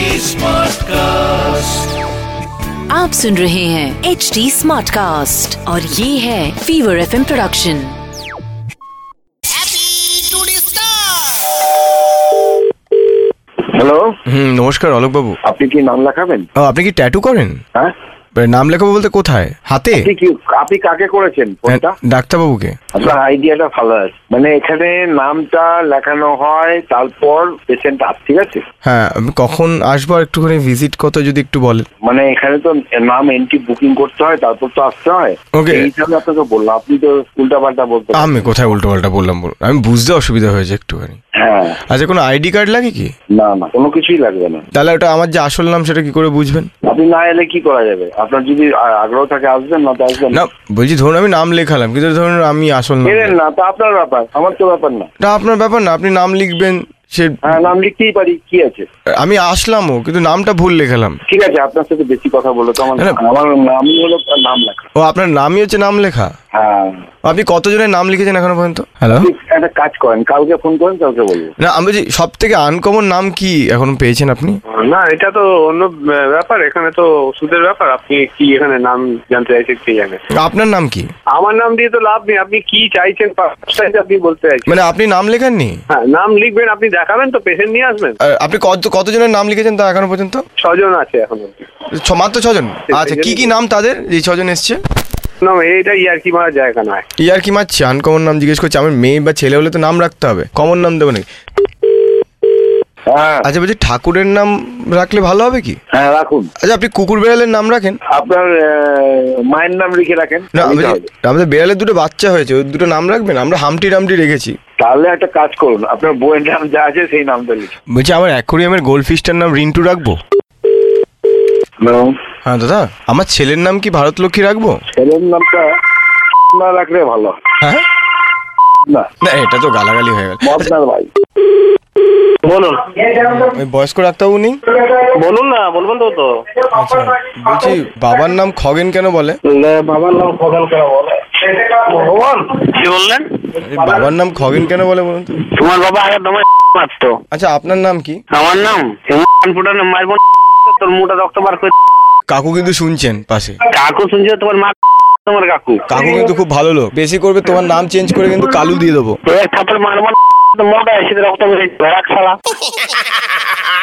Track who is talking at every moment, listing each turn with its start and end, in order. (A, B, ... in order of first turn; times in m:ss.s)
0:02.9-0:08.0 A
0:13.6-0:14.1 B
0:14.3-0:15.4 C
0:15.4-0:16.5 B
0:16.6-0:17.6 C
0:18.4-0:20.0 C
0:20.0-0:21.9 B
0:21.7-0:22.8 C
0:22.9-0:28.6 B
0:28.8-0:31.9 C
0:32.0-0:38.5 B
0:35.5-0:35.9 C
0:38.1-0:41.2 C
0:41.4-0:41.8 B
0:41.9-0:43.1 C
0:43.3-0:44.6 B
0:44.7-0:46.7 C
0:46.8-0:50.4 B
0:50.3-0:53.3 C
0:53.0-0:55.1 B
0:55.2-0:57.6 C
0:57.4-0:58.9 B
0:59.2-1:01.2 C
1:01.3-1:04.8 B
1:05.0-1:06.3 C
1:06.5-1:07.0 B
1:07.2-1:09.3 C
1:09.2-1:11.5 B
1:11.6-1:14.6 C
1:14.7-1:20.2 D
1:20.3-1:21.1 C
1:21.3-1:24.7 D
1:24.7-1:25.8 C
1:25.9-1:28.2 D
1:28.2-1:30.4 C
1:30.6-1:31.7 D
1:32.0-1:34.8 C
1:32.9-1:33.5 D
1:35.4-1:37.0 D
1:37.2-1:41.3 C
1:43.1-1:43.5 B
1:43.4-1:45.8 C
1:45.9-1:46.5 B
1:46.6-1:48.0 C
1:48.1-1:51.0 B
1:50.5-1:54.6 C
1:54.8-1:57.7 B
1:57.9-2:00.2 C
2:01.8-2:02.1 B
2:02.4-2:04.8 C
2:04.9-2:05.7 B
2:06.5-2:07.4 B
2:07.6-2:07.8 C
2:09.2-2:10.7 C
2:10.4-2:11.1 B
2:12.4-2:13.2 E
2:13.2-2:14.6 C
2:14.9-2:16.3 E
2:16.7-2:19.4 C
2:19.6-2:21.0 E
2:21.6-2:23.2 E
2:23.6-2:25.4 C
2:25.5-2:27.2 E
2:27.3-2:28.2 C
2:28.3-2:31.7 E
2:32.3-2:33.6 C
2:33.7-2:34.7 E
2:35.2-2:35.8 E
2:35.9-2:39.2 C
2:39.3-2:42.4 E